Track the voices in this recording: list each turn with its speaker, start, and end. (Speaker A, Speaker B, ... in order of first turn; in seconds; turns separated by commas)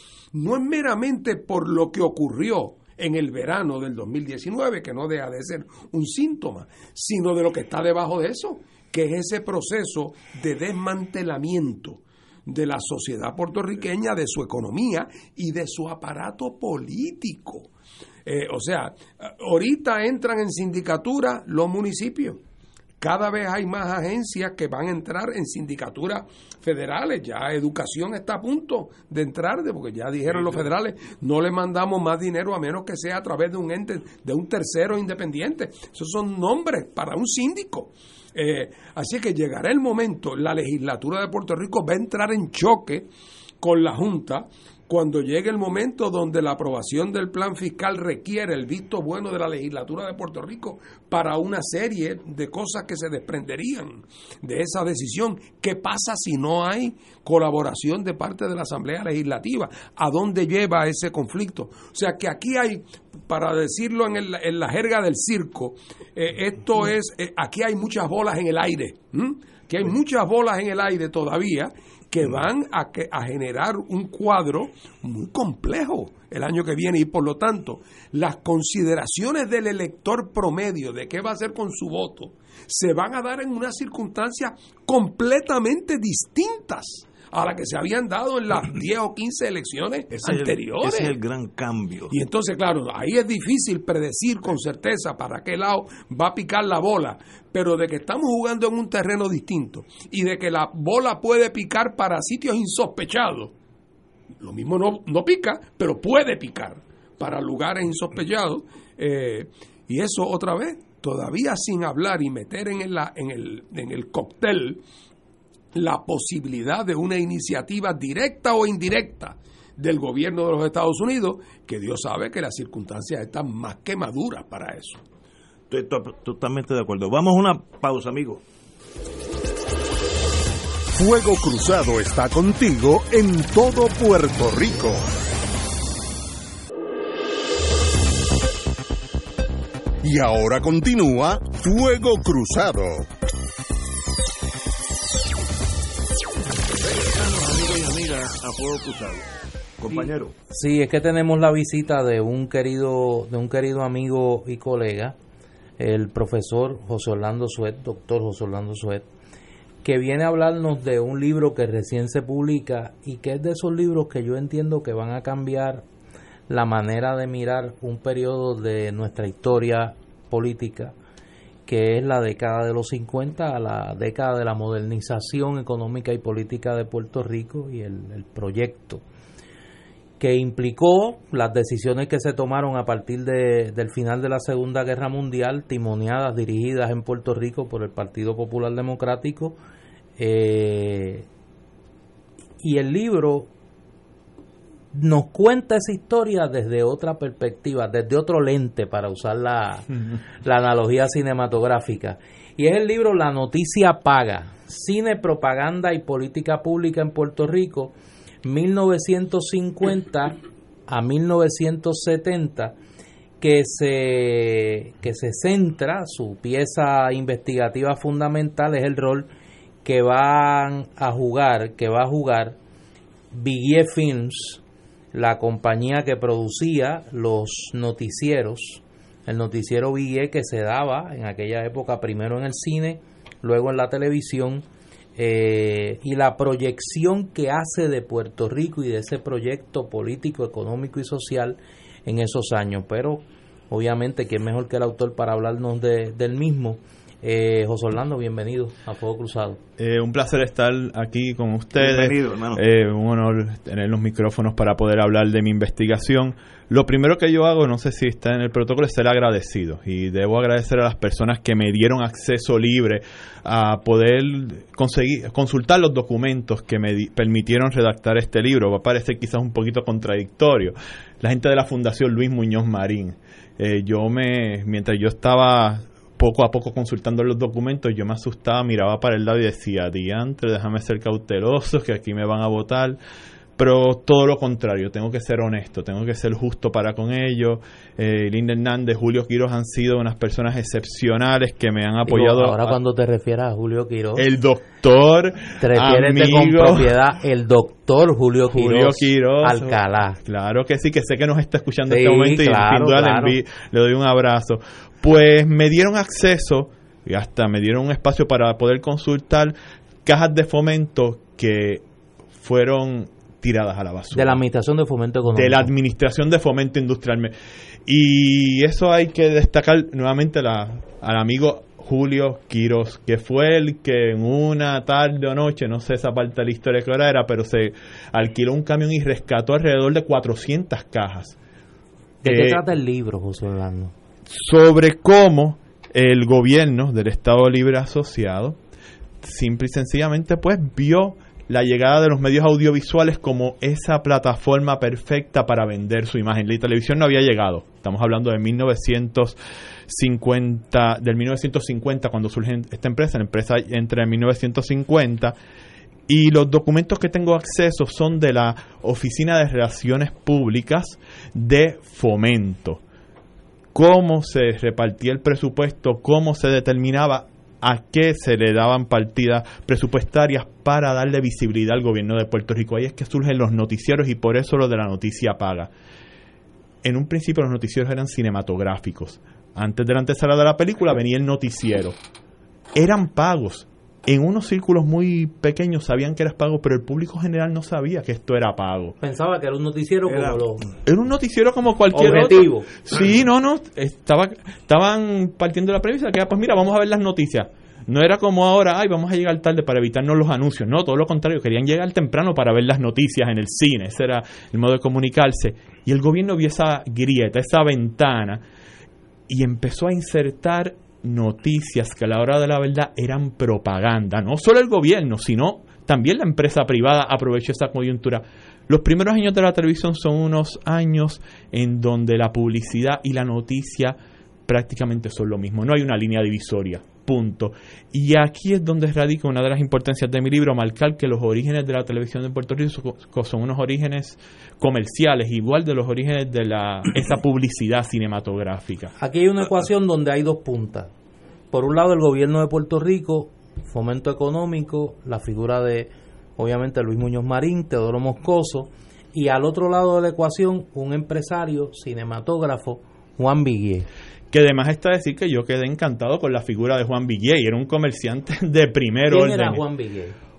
Speaker A: 0.3-17.7, Speaker A: 18.3-22.4, Speaker A: 23.0-43.1, Speaker A: 43.6-91.2, Speaker B: 90.1-92.1, Speaker A: 92.1-103.5, Speaker A: 104.4-114.8, Speaker A: 115.7-125.0, Speaker B: 125.7-128.4, Speaker C: 130.9-135.1, Speaker C: 140.0-143.1, Speaker B: 146.7-150.3, Speaker D: 150.5-155.2, Speaker D: 155.8-159.1, Speaker D: 159.8-165.8, Speaker D: 166.5-170.9, Speaker D: 171.7-179.0, Speaker D: 180.2-189.6, Speaker D: 190.2-191.3, Speaker D: 192.6-193.5, Speaker D: 194.9-212.8, Speaker D: 213.4-219.3, Speaker D: 219.8-222.6, Speaker D: 223.3-224.6, Speaker D: 225.1-234.7, Speaker D: 235.2-249.6, Speaker E: 249.8-283.0, Speaker B: 251.8-252.6, Speaker E: 283.6-292.8, Speaker D: 292.1-294.3, Speaker E: 294.2-296.9, Speaker D: 295.6-300.2, Speaker E: 298.5-311.8, Speaker D: 301.9-303.4, Speaker E: 312.4-314.4, Speaker D: 314.1-315.7, Speaker E: 315.3-317.3, Speaker E: 317.9-331.4, Speaker D: 332.2-333.9, Speaker E: 332.2-332.6, Speaker E: 334.3-338.6, Speaker E: 339.2-349.4, Speaker E: 349.9-355.4, Speaker E: 356.1-362.8, Speaker E: 363.7-375.7, Speaker E: 376.8-382.0, Speaker E: 382.8-389.0, Speaker D: 389.0-390.7, Speaker B: 390.1-390.5, Speaker E: 390.9-408.4, Speaker D: 391.9-392.7, Speaker E: 409.3-438.9, Speaker D: 439.0-440.9, Speaker D: 441.5-453.9, Speaker E: 454.3-459.6, Speaker D: 459.1-460.2